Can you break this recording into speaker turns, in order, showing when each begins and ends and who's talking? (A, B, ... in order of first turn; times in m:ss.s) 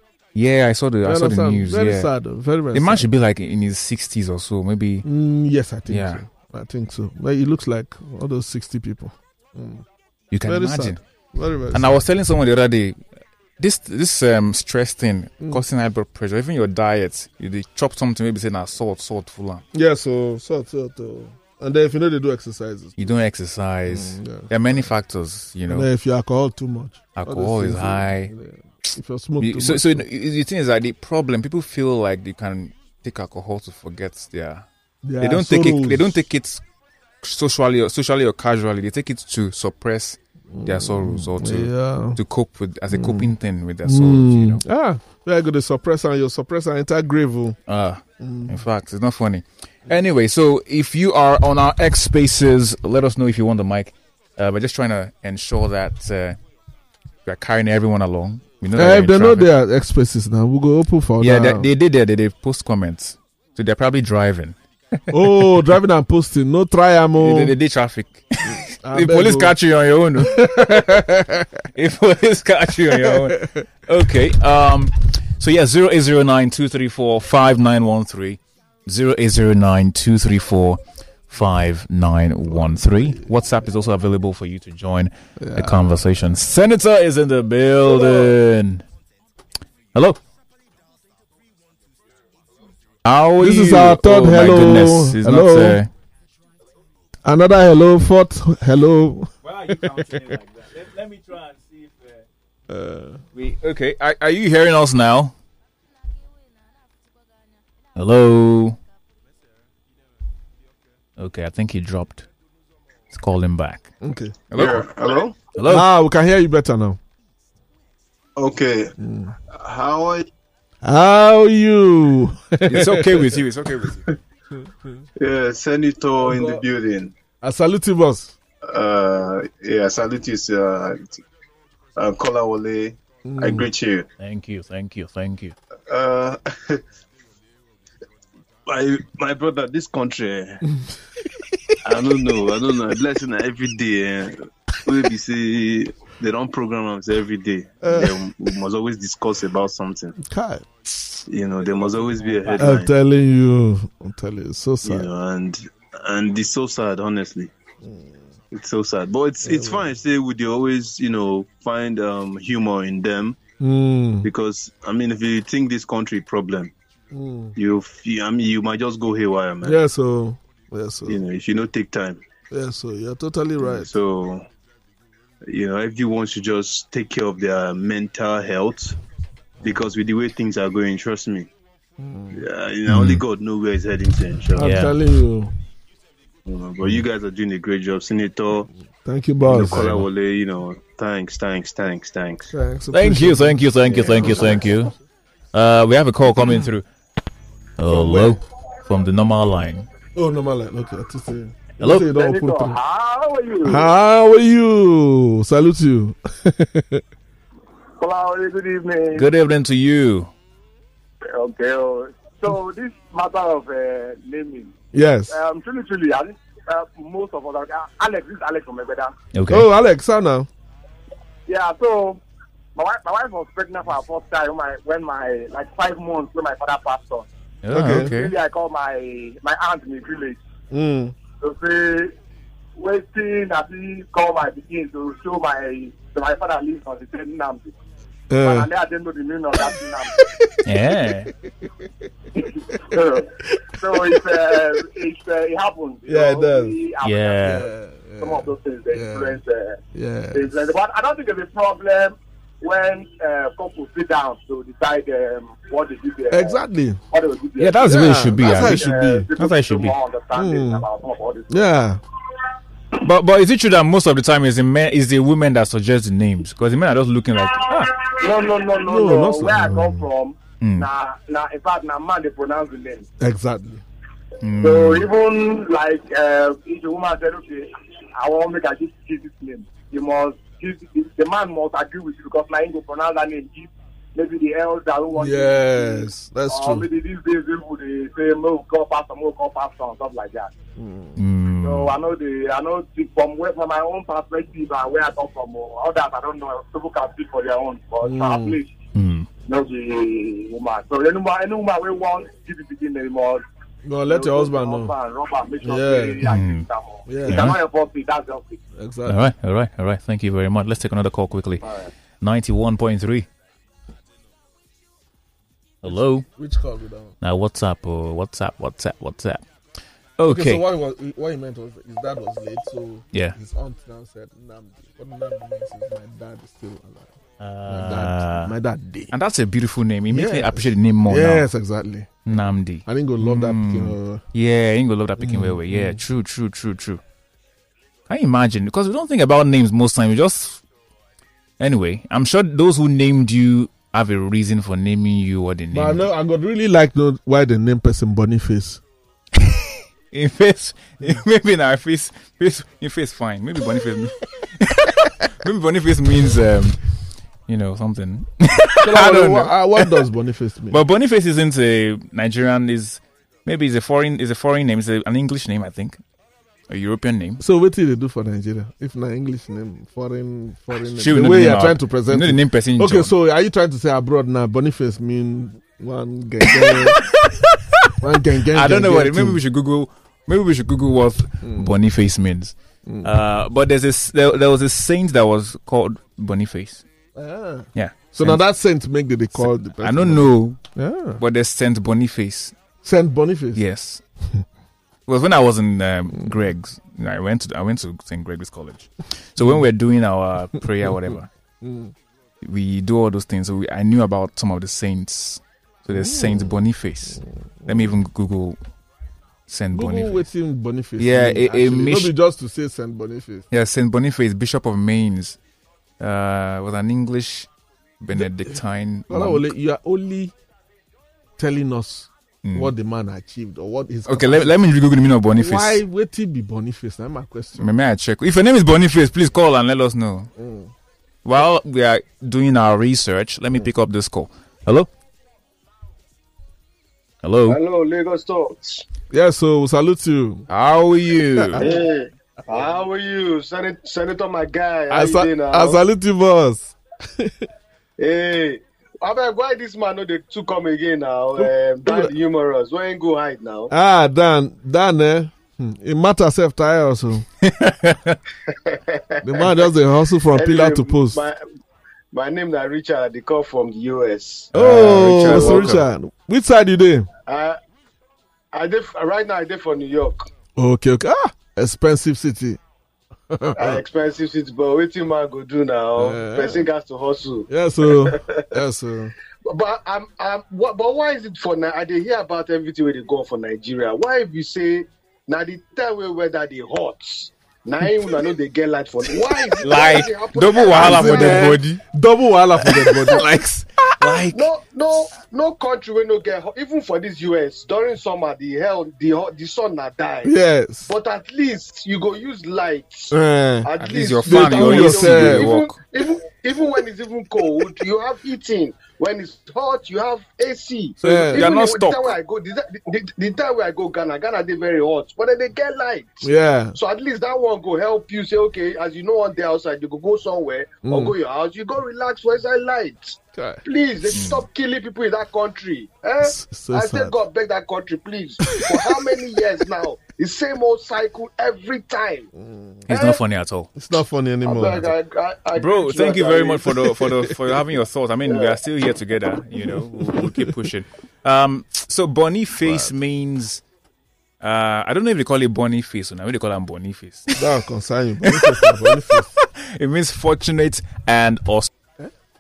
0:00.4-0:02.1 A
0:01.0-0:03.1 B
0:02.7-0:05.1 A
0:05.0-0:09.8 B
0:05.9-0:06.2 A
0:10.3-0:11.0 A
0:10.4-0:12.0 B
0:11.7-0:13.0 A
0:13.6-0:19.6 A
0:19.7-0:23.1 B
0:23.0-0:25.9 A
0:23.9-0:24.9 B
0:25.7-0:30.0 B
0:27.2-0:28.3 A
0:29.4-0:34.6 A
0:35.0-0:36.2 B
0:35.2-0:36.6 A
0:37.2-0:44.6 A
0:40.5-0:42.2 B
0:42.9-0:43.3 B
0:43.8-0:47.6 B
0:47.7-0:56.4 A
0:48.2-0:48.6 B
0:57.3-0:59.5 A
0:58.7-1:01.7 B
1:01.2-1:04.6 A
1:05.1-1:07.6 B
1:05.1-1:05.4 A
1:07.2-1:11.2 A
1:08.5-1:09.6 B
1:10.2-1:11.6 B
1:11.8-1:28.8 A
1:12.9-1:13.6 B
1:25.4-1:26.0 B
1:29.9-1:30.2 A
1:33.0-1:35.9 A
1:33.4-1:35.8 B
1:37.2-1:39.3 B
1:39.4-1:42.3 A
1:42.7-1:43.2 B
1:43.3-1:45.3 A
1:48.0-1:48.8 A
1:51.2-1:52.3 A
1:53.1-1:53.9 A
1:54.0-1:54.4 B
1:54.5-1:54.9 A
1:54.6-1:55.4 C
1:55.6-1:55.9 A
1:55.6-1:57.0 B
1:58.4-1:58.9 C
1:59.0-1:59.4 B
1:59.5-2:00.3 C
2:00.8-2:03.3 B
2:02.7-2:04.1 A
2:04.6-2:05.0 B
2:05.2-2:07.2 C
2:06.2-2:06.6 B
2:07.4-2:08.4 B
2:08.6-2:11.2 C
2:12.0-2:14.1 C
2:13.2-2:13.7 B
2:14.2-2:15.6 A
2:15.9-2:16.8 C
2:18.7-2:20.6 C
2:21.8-2:30.2 C
2:27.8-2:28.2 B
2:30.2-2:30.7 B
2:31.3-2:32.9 C
2:32.6-2:35.1 B
2:34.8-2:37.5 C
2:37.8-2:38.2 B
2:38.5-2:43.4 C
2:39.4-2:39.9 B
2:43.6-2:44.3 B
2:44.2-2:46.7 C
2:47.1-2:47.6 B
2:47.6-2:49.8 C
2:49.6-2:51.2 B
2:51.1-2:52.2 C
2:52.5-2:53.9 B
2:53.6-2:54.5 C
2:55.5-2:59.0 C
2:59.6-3:01.5 C
3:02.0-3:02.4 B
3:02.3-3:04.7 C
3:02.9-3:03.2 A
3:04.6-3:05.5 B
3:04.6-3:05.0 A
3:06.5-3:08.7 C
3:09.0-3:10.1 B
3:09.4-3:12.5 C
3:12.5-3:14.6 B
3:12.9-3:14.9 A
3:13.9-3:14.6 C
3:15.5-3:16.9 A
3:17.8-3:19.9 A
3:17.9-3:18.4 B
3:20.2-3:22.8 B
3:21.8-3:22.1 A
3:21.8-3:23.9 D
3:23.6-3:27.0 B
3:28.0-3:29.3 D
3:29.1-3:30.3 A
3:31.3-3:34.7 D
3:34.9-3:35.4 B
3:35.3-3:39.1 D
3:39.3-3:39.7 A
3:39.5-3:40.5 B
3:41.5-3:42.2 D
3:42.8-3:47.3 D
3:47.6-3:48.4 A
3:47.7-3:48.1 B
3:47.8-3:50.4 D
3:50.7-3:51.2 B
3:51.4-3:52.1 D
3:52.8-3:57.7 D
3:58.3-3:58.7 B
3:58.4-4:00.2 D
4:00.2-4:00.5 B
4:00.6-4:01.3 A
4:02.4-4:07.7 D
4:03.9-4:04.6 B
4:06.1-4:06.8 B
4:07.0-4:07.7 A
4:07.4-4:09.4 B
4:08.2-4:09.8 D
4:09.9-4:10.5 B
4:10.3-4:16.6 D
4:16.3-4:17.0 B
4:17.1-4:21.7 D
4:17.6-4:20.0 A
4:17.9-4:19.3 B
4:20.3-4:20.9 B
4:21.5-4:22.0 B
4:23.0-4:28.1 A
4:27.6-4:33.1 D
4:28.8-4:30.1 B
4:30.6-4:30.9 A
4:33.2-4:33.8 B
4:34.4-4:35.1 A
4:34.6-4:50.5 D
4:45.1-4:46.9 B
4:50.8-4:51.2 B
4:51.2-4:52.0 A
4:51.6-4:58.7 D
4:58.0-4:58.6 B
4:59.0-4:59.3 A
4:59.5-5:03.4 D
5:03.8-5:05.0 B
5:04.0-5:08.6 D
5:05.6-5:06.2 B
5:06.2-5:06.7 A
5:07.1-5:07.6 B
5:07.3-5:07.6 A
5:08.8-5:09.3 B
5:09.1-5:11.6 A
5:11.6-5:11.9 D
5:12.2-5:13.3 A
5:15.8-5:16.3 A
5:15.9-5:17.2 B
5:17.2-5:19.4 A
5:20.2-5:20.6 A
5:20.3-5:29.1 B
5:27.4-5:28.5 A
5:29.1-5:31.5 A
5:30.1-5:34.2 B
5:32.3-5:37.0 A
5:35.2-5:36.0 B
5:38.1-5:40.6 A
5:41.6-5:46.1 A
5:45.7-5:48.8 B
5:49.4-5:56.8 A
5:57.5-5:59.9 A
5:58.8-6:00.8 B
6:00.7-6:06.0 A
6:06.7-6:07.4 A
6:07.4-6:17.0 B
6:10.8-6:13.1 A
6:16.4-6:17.9 A
6:18.0-6:19.4 B
6:18.4-6:26.8 A
6:21.4-6:21.7 B
6:22.9-6:23.1 B
6:27.2-6:31.2 B
6:27.8-6:28.4 A
6:29.4-6:30.6 A
6:31.2-6:32.6 A
6:32.8-6:33.6 B
6:33.6-6:34.0 A
6:35.1-6:41.3 A
6:41.6-6:41.9 B
6:42.4-6:48.6 A
6:45.9-6:46.5 B
6:49.5-6:50.2 A
6:49.7-6:53.4 B
6:51.0-6:52.1 A
6:53.5-6:55.4 A
6:56.0-6:57.5 A
6:58.0-6:59.4 A
6:59.1-7:00.3 B
7:01.4-7:04.5 B
7:02.4-7:02.7 A
7:04.1-7:05.8 A
7:05.3-7:07.7 B
7:07.6-7:10.3 A
7:10.4-7:10.7 B
7:11.2-7:14.9 A
7:17.2-7:17.6 A
7:17.4-7:18.8 E
7:19.1-7:20.5 B
7:20.5-7:21.8 A
7:21.4-7:21.8 B
7:21.6-7:25.8 E
7:24.9-7:27.5 B
7:28.0-7:33.7 E
7:31.4-7:32.1 B
7:33.7-7:37.3 B
7:37.4-7:38.2 A
7:38.5-7:39.5 E
7:39.2-7:41.2 B
7:40.3-7:41.4 E
7:42.1-7:44.5 E
7:44.5-7:45.9 A
7:44.5-7:47.1 B
7:45.2-7:45.8 E
7:47.3-7:47.6 E
7:48.5-7:50.3 E
7:50.6-7:52.6 B
7:53.3-7:53.8 B
7:53.6-7:58.4 E
7:56.0-7:56.7 B
7:57.5-7:59.2 B
7:59.5-8:11.6 E
8:09.6-8:11.8 A
8:10.7-8:13.2 B
8:12.6-8:14.5 A
8:14.2-8:20.3 E
8:20.2-8:20.9 B
8:20.9-8:52.3 E
8:23.1-8:23.7 B
8:23.8-8:25.8 A
8:24.2-8:25.5 B
8:31.0-8:31.5 B
8:31.1-8:32.2 A
8:36.2-8:36.8 B
8:40.8-8:41.1 B
8:43.4-8:43.6 B
8:44.1-8:44.5 A
8:46.2-8:47.1 B
8:48.6-8:49.1 B
8:52.4-8:52.9 B
8:52.9-8:53.2 E
8:52.9-8:53.8 A
8:53.8-8:54.9 B
8:54.4-8:56.7 E
8:55.6-9:03.6 A
8:58.2-8:58.6 E
9:00.1-9:00.5 B
9:02.6-9:02.9 B
9:04.4-9:07.5 A
9:07.4-9:09.3 B
9:08.3-9:11.7 A